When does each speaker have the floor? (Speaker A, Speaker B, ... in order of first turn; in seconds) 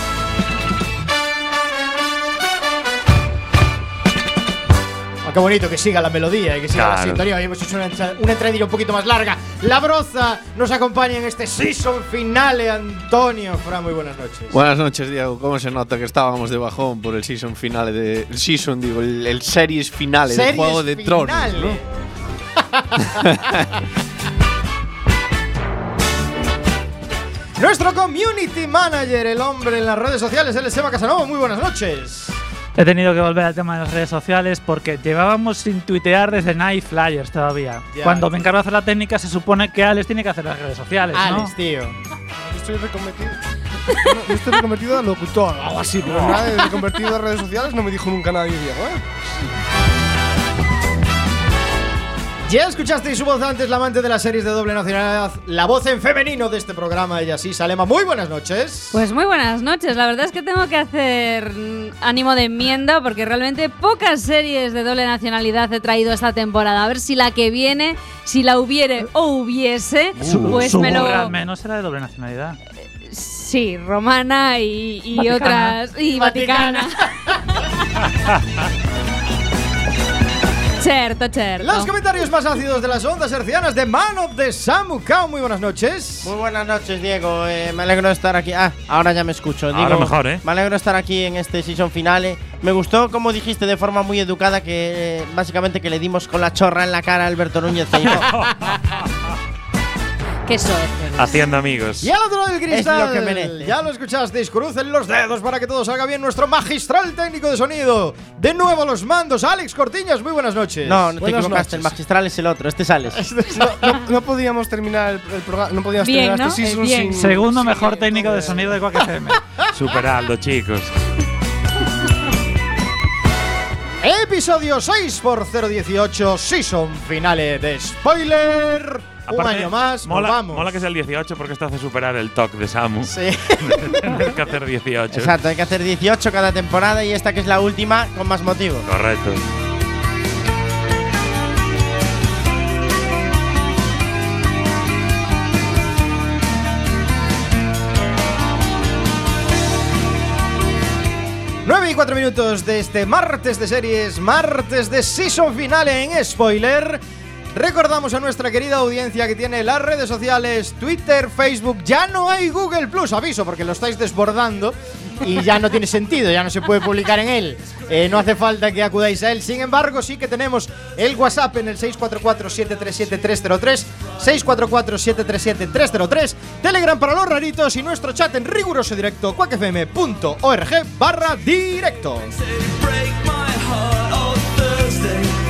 Speaker A: 5.2-14.6, 20.3-21.8, 22.6-23.6, 27.6-32.4, 37.9-38.3, 41.1-42.0, 52.5-59.0, 76.1-77.3, 81.6-86.3, 102.0-111.2, 113.1-114.0, 124.0-130.7, 133.1-134.4, 151.6-157.0, 157.5-182.3
Speaker B: 6.7-7.2, 46.0-46.6, 70.2-71.2, 89.7-90.4, 98.0-99.1, 101.2-102.1, 119.7-120.9, 129.3-135.3, 138.9-139.4
Speaker C: 14.5-21.8
Speaker D: 32.8-41.5, 70.2-72.6, 75.2-75.8, 117.2-119.4
Speaker E: 42.4-43.4, 44.0-49.0, 111.2-111.9, 113.5-118.7
Speaker F: 58.9-71.3, 73.0-77.6, 80.8-81.9, 100.5-101.5, 116.0-117.5
Speaker G: 86.2-98.3, 102.7-103.7, 110.8-113.2, 135.1-138.8